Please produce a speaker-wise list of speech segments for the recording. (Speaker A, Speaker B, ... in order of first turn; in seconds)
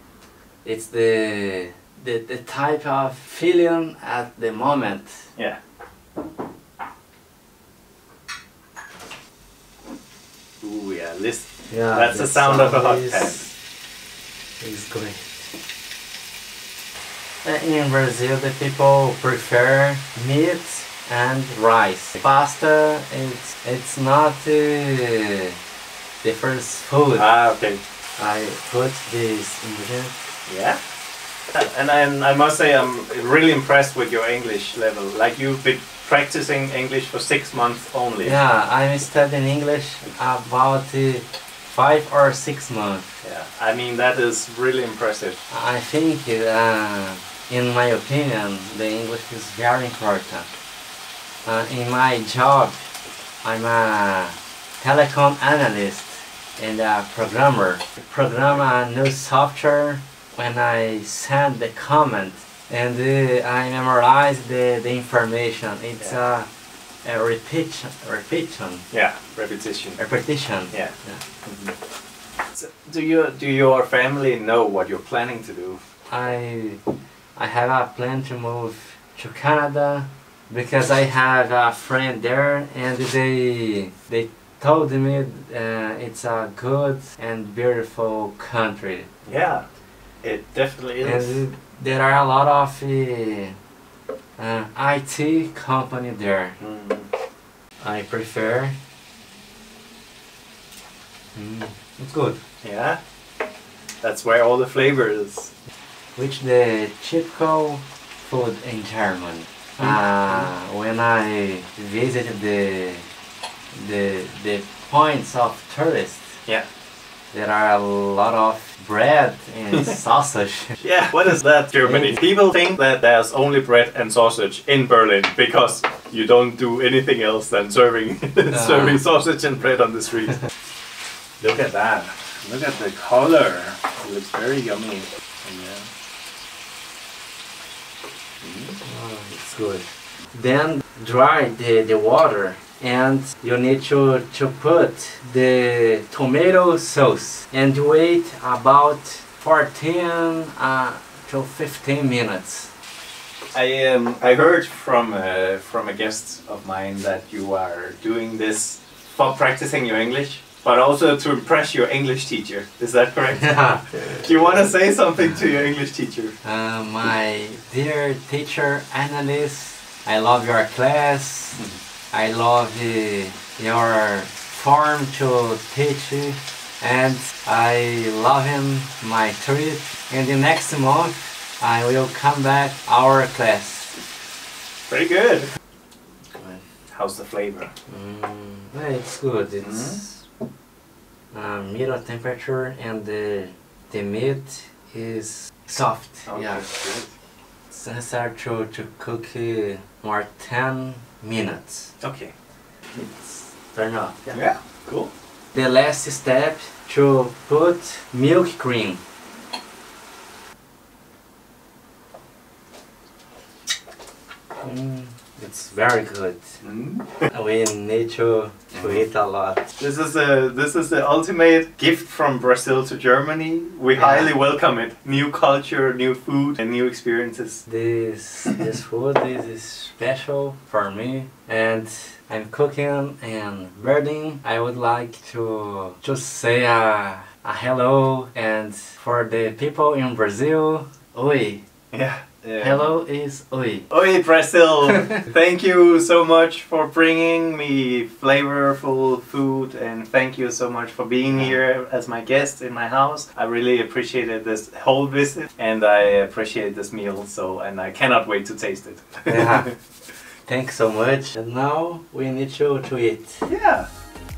Speaker A: 0.6-5.3, 11.7-13.5, 14.6-15.5, 17.4-25.5, 26.2-27.3, 28.2-30.2, 38.2-43.1, 45.5-50.5, 51.4-52.9, 53.4-66.5, 67.0-68.8, 70.0-71.2, 76.1-76.8, 77.3-89.1, 91.0-93.5, 94.4-96.6, 97.8-98.8, 101.3-102.4, 106.2-113.0, 113.7-116.4, 117.3-120.8, 121.8-122.2, 128.5-129.0, 138.8-152.7, 163.3-164.2, 166.4-184.0, 186.3-186.6, 187.9-190.2, 191.3-196.6, 197.7-201.9, 202.9-204.4, 205.5-209.0, 214.6-216.6, 217.3-219.7, 223.9-224.3, 227.7-241.6, 242.6-243.9, 251.3-251.6, 259.3-259.7, 260.4-263.4
Speaker B: 10.6-13.4, 27.1-27.8, 30.4-30.8, 31.5-38.4, 43.2-45.4, 68.9-70.0, 71.4-71.7, 72.5-75.8, 89.2-89.6, 90.2-91.4, 96.6-97.1, 102.6-103.0, 104.0-105.5, 109.8-110.5, 120.8-130.4, 131.4-135.9, 138.4-138.8, 153.5-166.3, 184.9-185.5, 186.9-187.7, 189.6-190.0, 196.3-197.1, 202.0-202.3, 204.3-205.1, 216.6-217.2, 219.8-227.6, 241.9-242.9, 243.9-259.7, 263.4-263.9